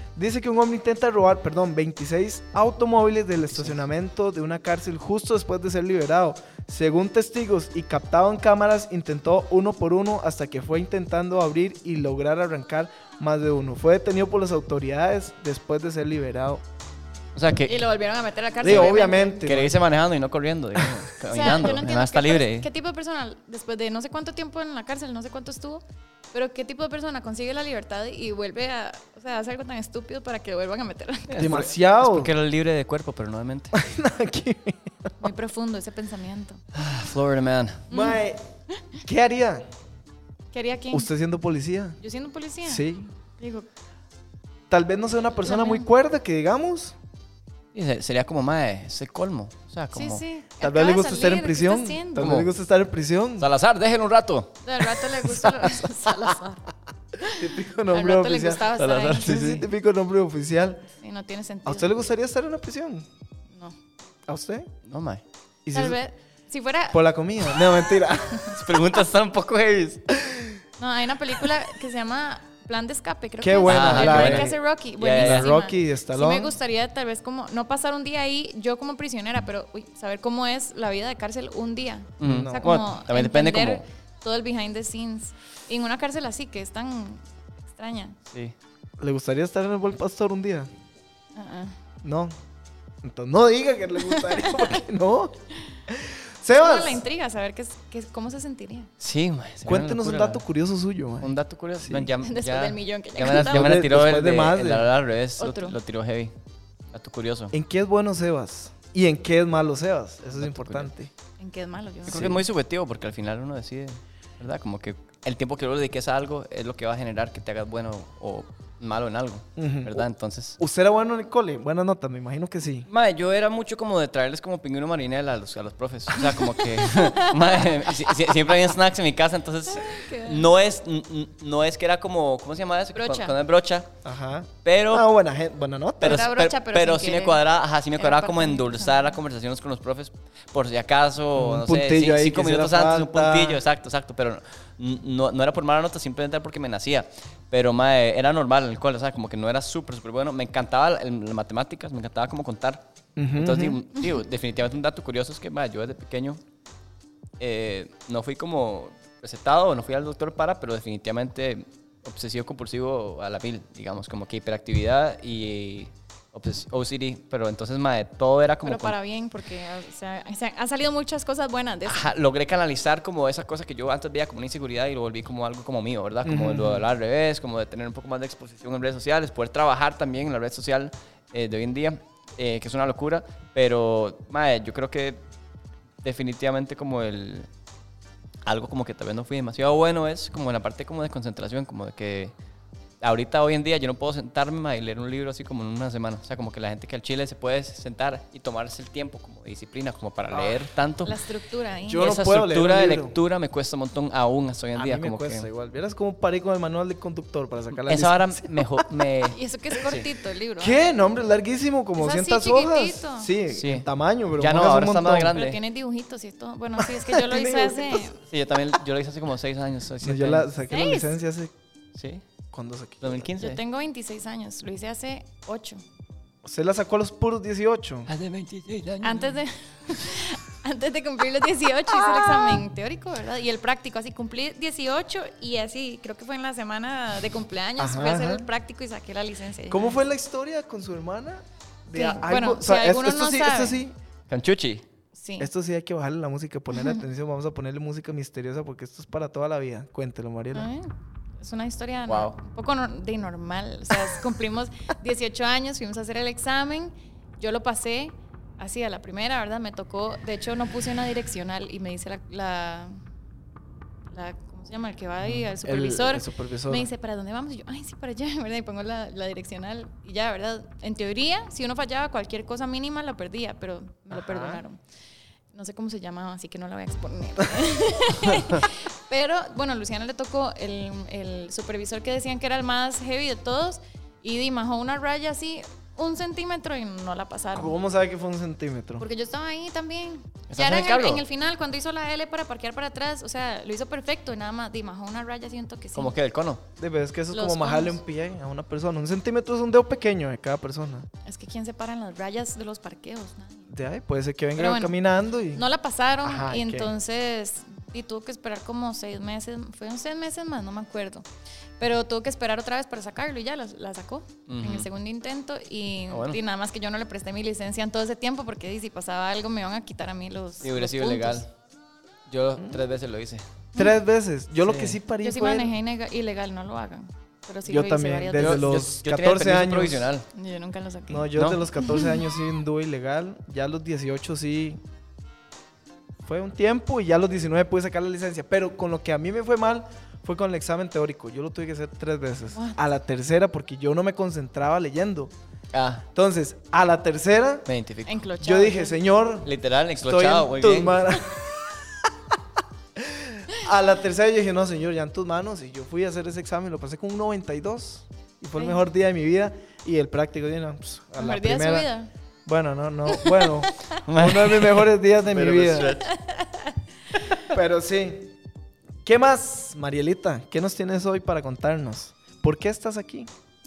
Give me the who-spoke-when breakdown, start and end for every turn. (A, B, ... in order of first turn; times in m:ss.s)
0:00.2-0:16.6 A
0:03.5-0:03.8 B
0:17.3-0:17.8 B
0:17.6-0:19.4 C
0:18.6-0:19.8 A
0:18.6-0:22.7 B
0:21.2-0:31.5 C
0:31.3-0:33.7 B
0:31.4-0:32.3 A
0:33.7-0:35.1 A
0:35.2-0:36.6 C
0:36.7-0:37.9 B
0:37.9-0:39.0 C
0:37.9-0:38.4 A
0:39.0-0:39.6 A
0:40.5-0:41.1 C
0:40.9-0:42.0 A
0:42.0-0:42.9 C
0:42.6-0:43.1 A
0:43.4-0:43.7 C
0:44.7-0:46.9 A
0:45.4-0:45.8 C
0:47.7-0:50.2 B
0:49.9-0:52.3 C
0:50.6-0:53.5 A
0:52.2-0:52.5 B
0:53.4-0:55.0 B
0:54.6-0:56.6 C
0:55.6-0:56.3 A
0:57.2-0:59.6 C
0:57.2-1:00.8 A
0:58.7-0:59.6 B
1:01.0-1:01.9 C
1:01.6-1:03.1 A
1:04.3-1:04.7 A
1:04.8-1:05.2 B
1:05.6-1:06.0 A
1:05.7-1:07.0 C
1:06.9-1:08.4 A
1:08.1-1:08.6 C
1:08.5-1:10.1 B
1:10.2-1:10.6 A
1:10.8-1:28.2 C
1:13.4-1:14.6 A
1:13.7-1:15.5 B
1:15.1-1:16.5 A
1:22.2-1:23.8 B
1:22.2-1:22.7 A
1:28.3-1:28.5 B
1:29.0-1:30.7 A
1:31.3-1:31.8 C
1:32.0-1:32.3 A
1:33.0-1:35.4 A
1:34.1-1:34.7 C
1:35.9-1:37.0 A
1:36.6-1:38.9 C
1:39.0-1:40.4 B
1:39.6-1:42.1 A
1:41.2-1:46.3 B
1:42.2-1:43.8 C
1:43.2-1:44.9 A
1:45.4-1:45.8 C
1:46.9-1:47.5 B
1:47.5-1:51.1 A
1:50.4-1:50.9 B
1:51.4-1:52.3 C
1:52.0-2:00.6 B
1:52.1-1:52.4 A
1:59.6-2:00.0 A
2:00.6-2:02.9 A
2:02.9-2:13.9 B
2:06.8-2:07.9 C
2:09.7-2:10.5 C
2:12.9-2:13.4 C
2:14.0-2:16.3 A
2:14.6-2:15.0 B
2:16.0-2:32.8 B
2:16.0-2:17.4 C
2:18.0-2:19.2 C
2:21.3-2:23.6 A
2:33.2-2:33.8 A
2:33.4-2:36.4 B
2:37.4-2:49.0 B
2:48.6-2:52.1 C
2:51.8-3:05.2 B
2:56.2-2:56.9 A
3:06.0-3:07.5 B
3:08.4-3:12.3 B
3:13.0-3:21.2 B
3:20.3-3:20.6 A
3:21.0-3:22.1 C
3:21.9-3:23.1 A
3:22.0-3:25.5 B
3:24.7-3:28.9 A
3:27.8-3:30.1 B
3:29.3-3:30.8 C
3:30.6-3:35.3 A
3:32.0-3:33.3 C
3:33.5-3:33.8 B
3:34.4-3:35.6 B
3:35.3-3:38.2 C
3:36.8-3:38.0 A
3:38.2-3:40.5 B
3:40.0-3:41.5 A
3:40.7-3:41.2 C
3:41.9-3:42.2 B
3:42.5-3:43.3 A
3:43.0-3:43.6 B
3:43.4-3:45.8 C
3:46.4-3:48.1 A
3:48.1-3:49.4 B
3:49.0-4:00.0 C
3:57.8-3:58.5 A
3:59.7-4:04.0 A
4:01.9-4:03.8 C
4:04.3-4:04.8 B
4:05.1-4:05.5 C
4:05.4-4:10.7 A
4:06.7-4:07.0 C
4:10.5-4:23.0 C
4:12.1-4:12.3 B
4:24.1-4:34.8 C
4:25.2-4:26.9 A
4:34.1-4:34.6 A
4:35.5-4:47.8 C
4:47.5-4:49.0 A
4:49.0-4:56.1 C
4:50.5-4:51.2 B
4:55.9-4:56.6 B
4:56.8-5:01.1 A
4:57.3-4:58.0 C
5:01.2-5:03.7 C
5:03.7-5:05.6 A
5:04.6-5:04.9 C
5:05.5-5:11.2 C
5:06.2-5:06.9 A
5:11.8-5:21.4 C
5:14.5-5:14.9 B
5:16.1-5:16.4 B
5:20.6-5:21.5 B
5:22.3-5:23.4 B
5:23.7-5:25.7 A
5:24.6-5:25.0 B
5:25.2-5:28.7 C
5:27.6-5:30.1 A
5:28.3-5:30.2 B
5:30.3-5:32.2 C
5:31.1-5:34.8 A
5:31.4-5:31.6 B
5:36.2-5:45.3 A
5:42.5-5:42.8 C
5:45.7-5:46.0 B
5:46.1-5:47.7 A
5:47.7-5:48.2 B
5:48.0-5:49.0 C
5:48.4-5:52.1 A
5:49.4-5:51.1 B
5:53.0-6:01.9 A
5:58.6-5:58.8 C
6:01.2-6:02.1 C
6:02.4-6:06.0 A
6:03.1-6:04.0 C
6:04.0-6:06.1 B
6:05.9-6:07.4 C
6:07.4-6:08.3 A
6:09.0-6:13.3 A